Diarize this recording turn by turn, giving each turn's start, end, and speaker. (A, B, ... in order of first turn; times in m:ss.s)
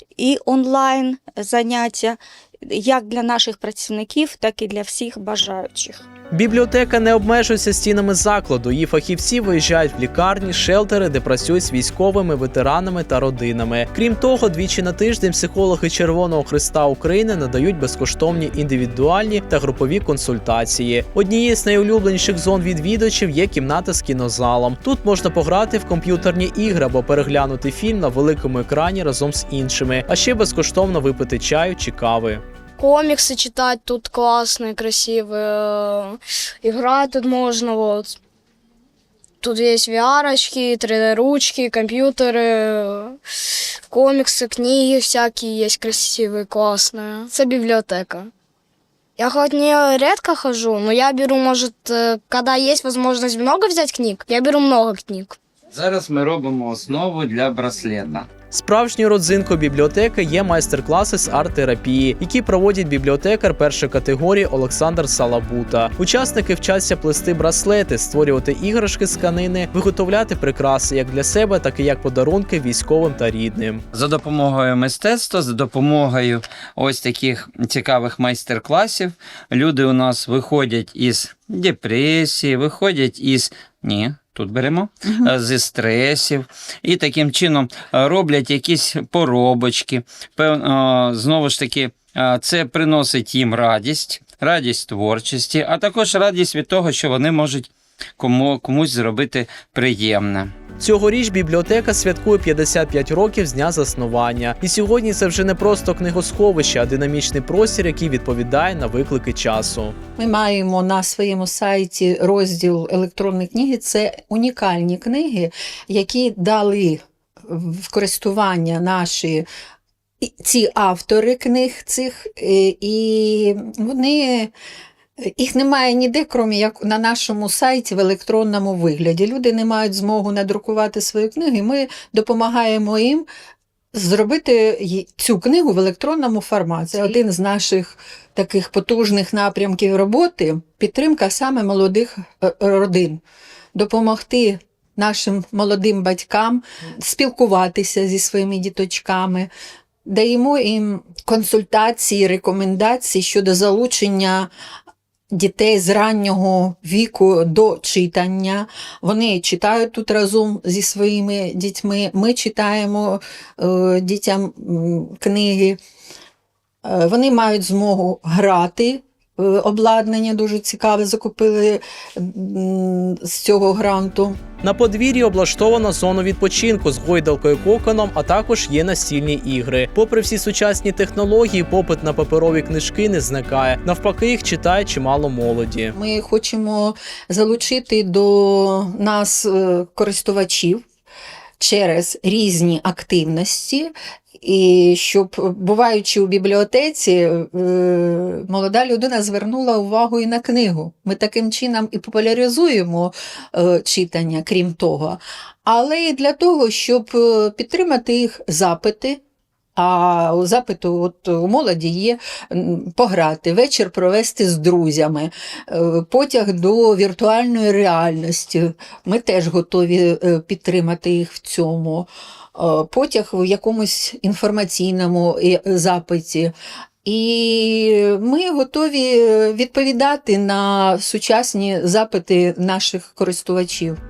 0:00.2-0:06.1 A
0:06.3-0:32.4 B
0:32.8-0:38.2 C
0:39.4-0:43.2 C
0:43.9-0:48.3 C
0:49.2-0:55.4 C
0:55.7-0:58.3 D
0:58.5-1:13.8 B
1:13.9-1:40.5 D
1:40.8-1:50.0 B
1:50.2-1:59.5 E
2:00.2-2:04.5 E
2:05.2-2:13.3 E
2:13.9-2:23.2 E
2:23.7-2:29.5 E
2:30.0-2:34.5 E
2:35.3-2:45.8 E
2:46.8-2:54.4 E
2:54.6-3:06.0 B
3:06.0-3:10.8 E
3:11.6-3:29.2 E
3:29.8-3:46.5 E
3:47.0-3:54.0 E